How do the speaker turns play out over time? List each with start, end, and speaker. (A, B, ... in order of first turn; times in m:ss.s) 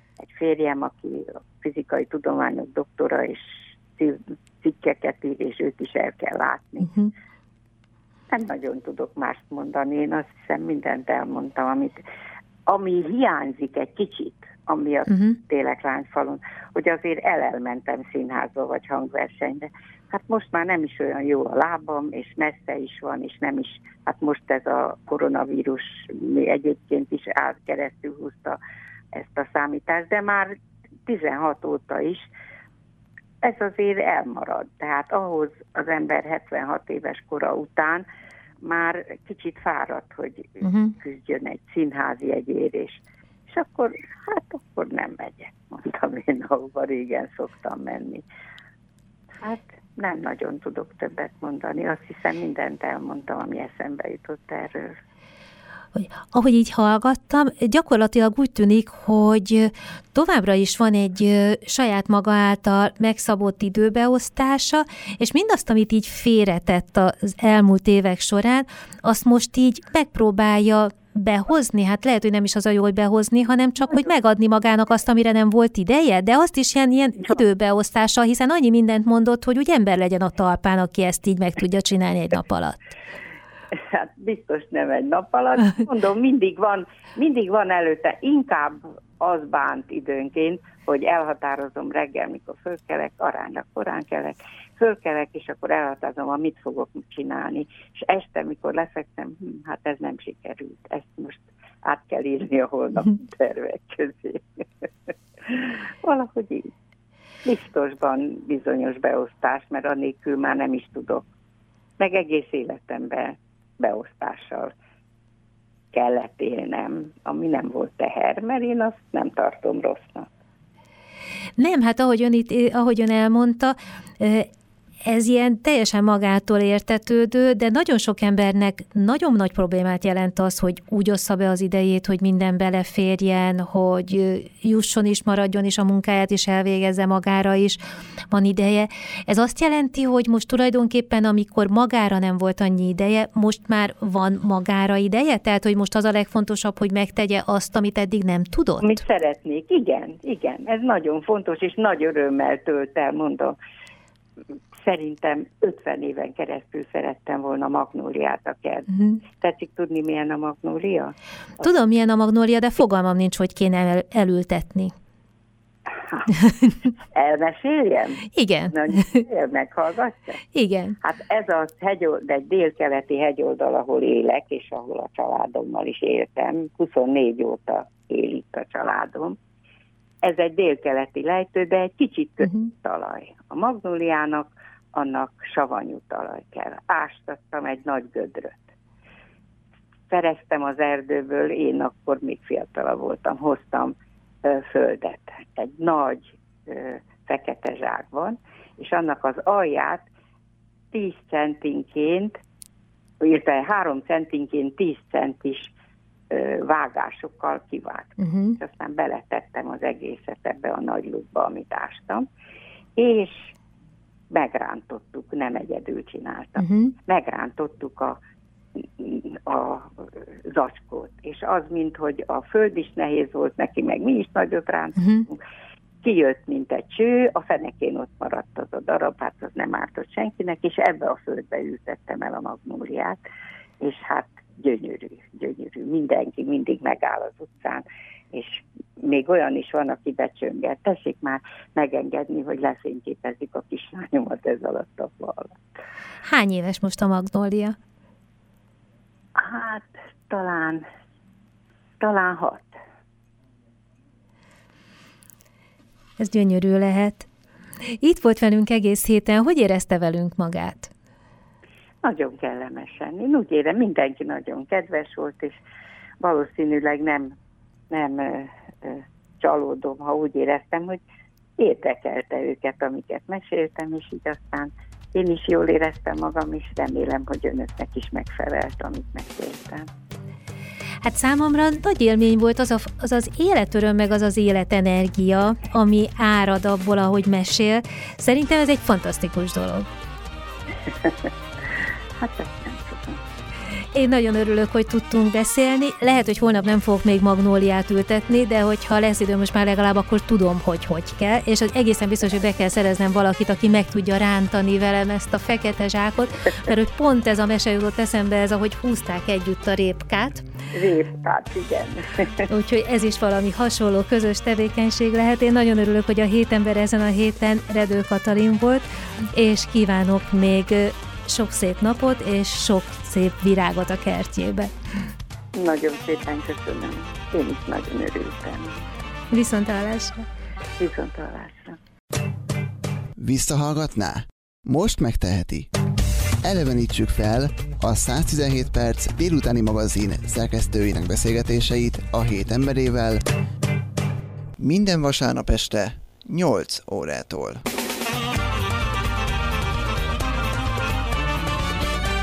0:00.2-0:06.9 A
0:06.8-0:07.1 B
0:08.3-0:12.0 A
0:12.7-0:28.6 A
0:15.1-0:15.4 B
0:29.1-0:32.3 A
0:33.4-0:38.0 A
0:38.6-0:48.2 A
0:40.6-0:40.9 B
0:49.4-0:55.0 A
0:56.0-1:22.8 B
1:23.7-1:46.7 A
1:47.4-1:51.2 A
1:52.0-1:54.7 A
1:55.9-2:00.3 A
2:01.6-2:04.5 B
2:05.0-2:29.0 B
2:28.8-2:33.6 A
2:34.8-2:41.1 A
2:41.6-2:44.9 B
2:46.3-2:46.7 B
2:47.1-2:50.4 A
2:48.3-2:49.2 B
2:50.5-2:51.0 B
2:51.0-2:59.4 A
3:00.2-3:08.7 A
3:10.1-3:20.0 A
3:20.9-3:22.4 A
3:23.2-3:25.7 A
3:26.3-3:32.2 A
3:28.2-3:28.6 B
3:33.0-3:33.5 A
3:34.3-3:38.2 A
3:36.6-3:36.9 B
3:38.8-3:45.4 A
3:45.0-3:45.3 B
3:46.0-3:53.2 A
3:53.8-4:05.6 A
4:06.2-4:07.8 B
4:09.3-4:10.8 A
4:12.0-4:12.8 A
4:16.2-4:17.3 B
4:17.9-4:20.9 B
4:22.0-4:25.6 A
4:26.2-4:27.3 A
4:27.9-4:31.0 A
4:31.6-4:39.9 A
4:41.0-4:49.9 B
4:52.2-4:53.2 A
4:53.9-5:10.4 B
5:10.7-5:12.4 A
5:12.5-5:24.7 B
5:25.6-5:28.8 A
5:29.3-5:30.2 B
5:30.8-5:31.8 A
5:33.2-5:35.7 C
5:36.4-5:43.2 C
5:44.6-5:47.6 C